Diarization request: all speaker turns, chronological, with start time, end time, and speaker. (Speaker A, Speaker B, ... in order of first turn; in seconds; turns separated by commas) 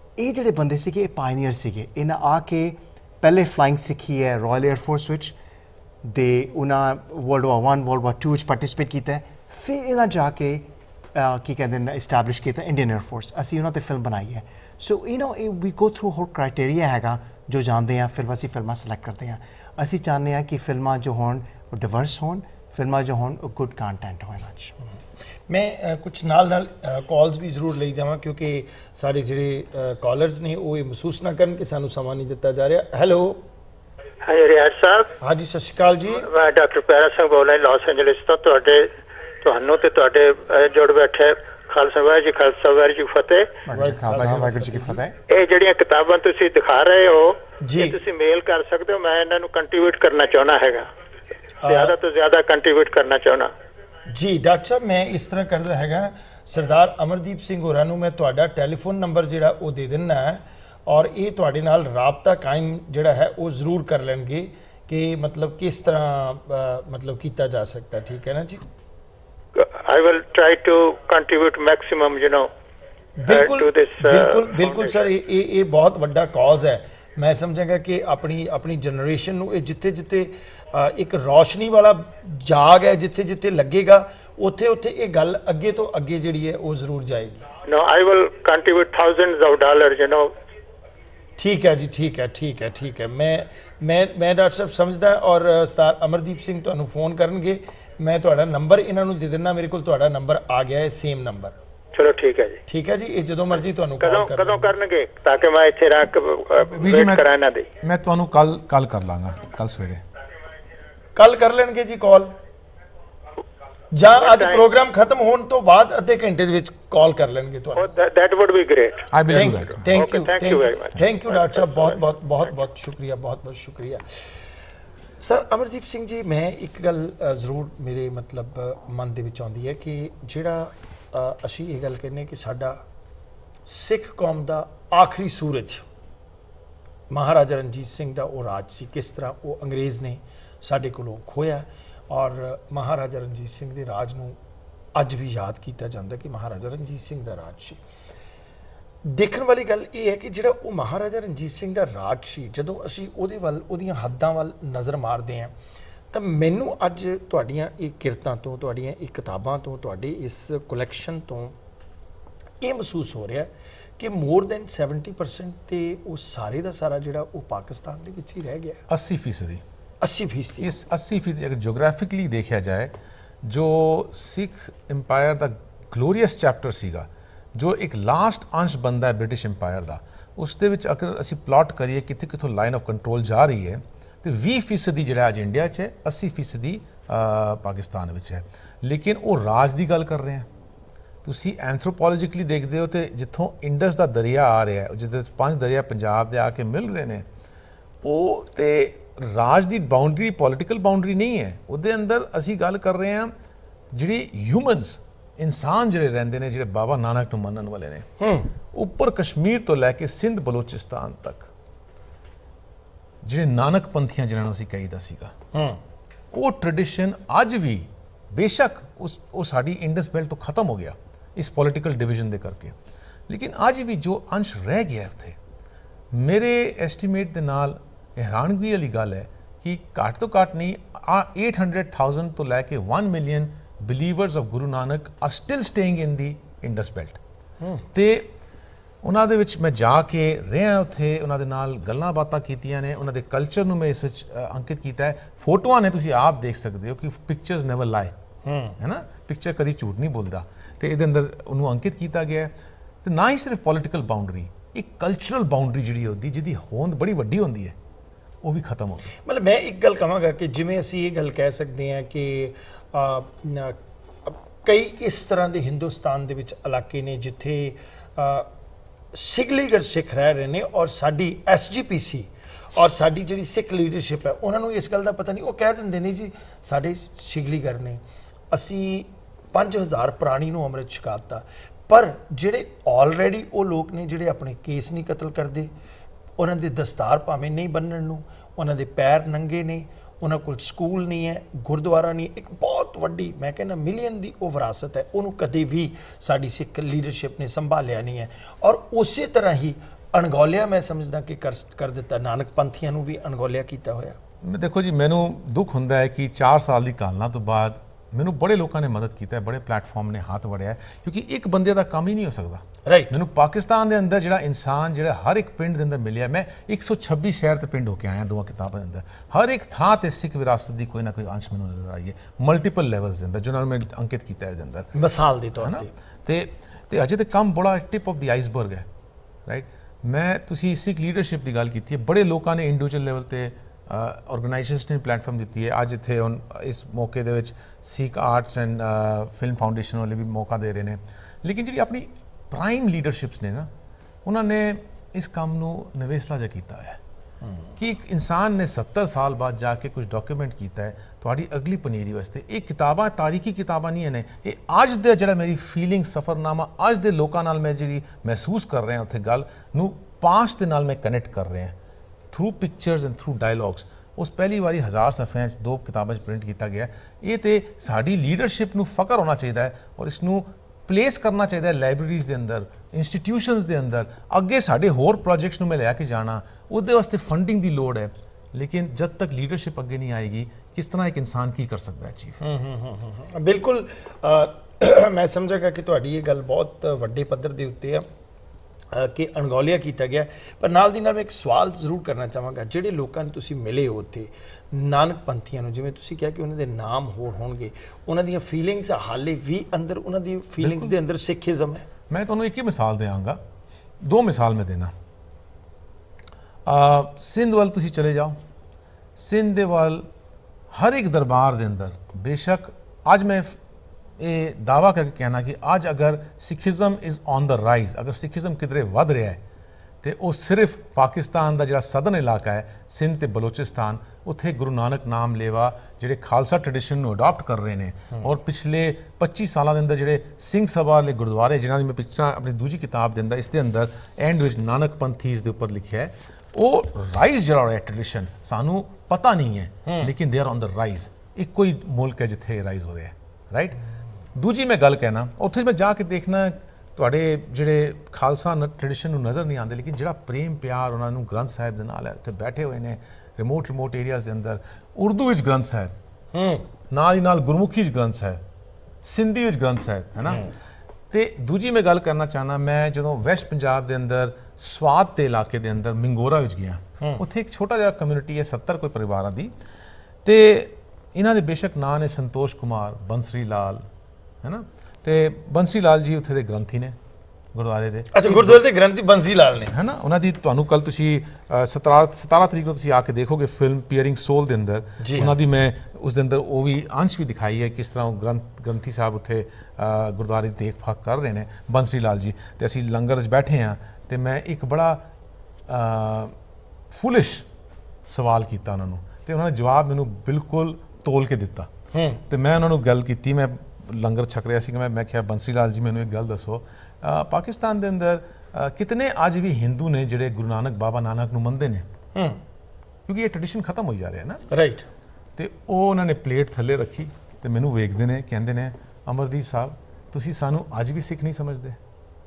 Speaker A: 0.2-5.3, Speaker A: 6.0-24.7, Speaker B: 25.5-33.4, Speaker C: 34.2-35.1, Speaker B: 35.2-36.3, Speaker C: 36.2-38.9, Speaker C: 39.4-43.5, Speaker A: 43.6-45.1, Speaker B: 43.7-45.0, Speaker C: 45.3-50.8, Speaker B: 47.6-48.0, Speaker B: 51.6-51.9, Speaker C: 51.6-53.5, Speaker B: 54.1-68.6, Speaker C: 69.5-72.5, Speaker B: 73.2-87.5, Speaker C: 73.3-75.0, Speaker C: 87.6-90.3, Speaker B: 91.4-101.5, Speaker C: 101.9-102.6, Speaker B: 102.7-104.7, Speaker C: 104.0-107.7, Speaker D: 106.7-107.2, Speaker D: 107.8-110.0, Speaker B: 111.1-112.3, Speaker B: 113.9-117.9, Speaker C: 114.1-114.7, Speaker C: 117.7-122.0, Speaker D: 119.1-119.8, Speaker B: 119.3-124.0, Speaker B: 125.2-132.8, Speaker B: 133.7-135.8, Speaker B: 137.1-144.4, Speaker B: 144.9-147.8, Speaker B: 149.0-155.5, Speaker B: 156.1-161.6, Speaker B: 162.6-168.8, Speaker D: 168.9-169.6, Speaker B: 170.0-170.7, Speaker D: 170.6-172.9, Speaker D: 173.4-190.5, Speaker D: 191.2-197.2, Speaker D: 198.0-203.3, Speaker D: 203.9-208.1, Speaker B: 208.2-208.5, Speaker D: 208.7-211.5, Speaker D: 213.2-215.3, Speaker B: 215.5-215.8, Speaker D: 216.3-222.7, Speaker D: 223.3-225.4, Speaker D: 226.1-237.2, Speaker B: 237.6-237.8, Speaker D: 237.9-238.3, Speaker D: 239.0-248.1, Speaker B: 248.4-248.8, Speaker D: 248.8-252.5, Speaker D: 253.0-257.7, Speaker D: 258.4-259.1, Speaker B: 259.2-268.5, Speaker B: 269.1-285.7, Speaker B: 286.4-304.2, Speaker D: 304.4-324.9, Speaker B: 312.8-313.1, Speaker B: 324.9-325.9, Speaker D: 325.6-328.8, Speaker D: 329.4-343.7, Speaker D: 344.2-347.0, Speaker B: 347.4-347.7, Speaker D: 347.8-361.7, Speaker D: 362.3-382.4, Speaker B: 382.4-388.1, Speaker B: 388.9-401.8, Speaker D: 400.6-400.9, Speaker D: 402.1-403.4, Speaker D: 404.0-404.9, Speaker D: 406.6-408.4, Speaker D: 409.2-410.1, Speaker D: 410.7-413.5, Speaker D: 414.2-419.4, Speaker D: 420.0-443.8, Speaker B: 439.8-440.1, Speaker D: 444.3-455.9, Speaker B: 456.3-456.6, Speaker D: 456.9-458.4, Speaker D: 459.0-460.5, Speaker D: 461.1-469.5, Speaker D: 470.2-473.8, Speaker D: 474.4-476.9, Speaker D: 477.5-478.6, Speaker B: 478.1-479.7, Speaker D: 479.7-495.0, Speaker B: 485.0-485.3, Speaker D: 495.7-496.3, Speaker D: 496.9-497.4, Speaker D: 498.0-501.7, Speaker B: 501.9-502.2, Speaker D: 502.3-511.9, Speaker B: 512.1-512.4, Speaker D: 513.1-514.4, Speaker B: 514.5-514.9, Speaker D: 515.4-521.8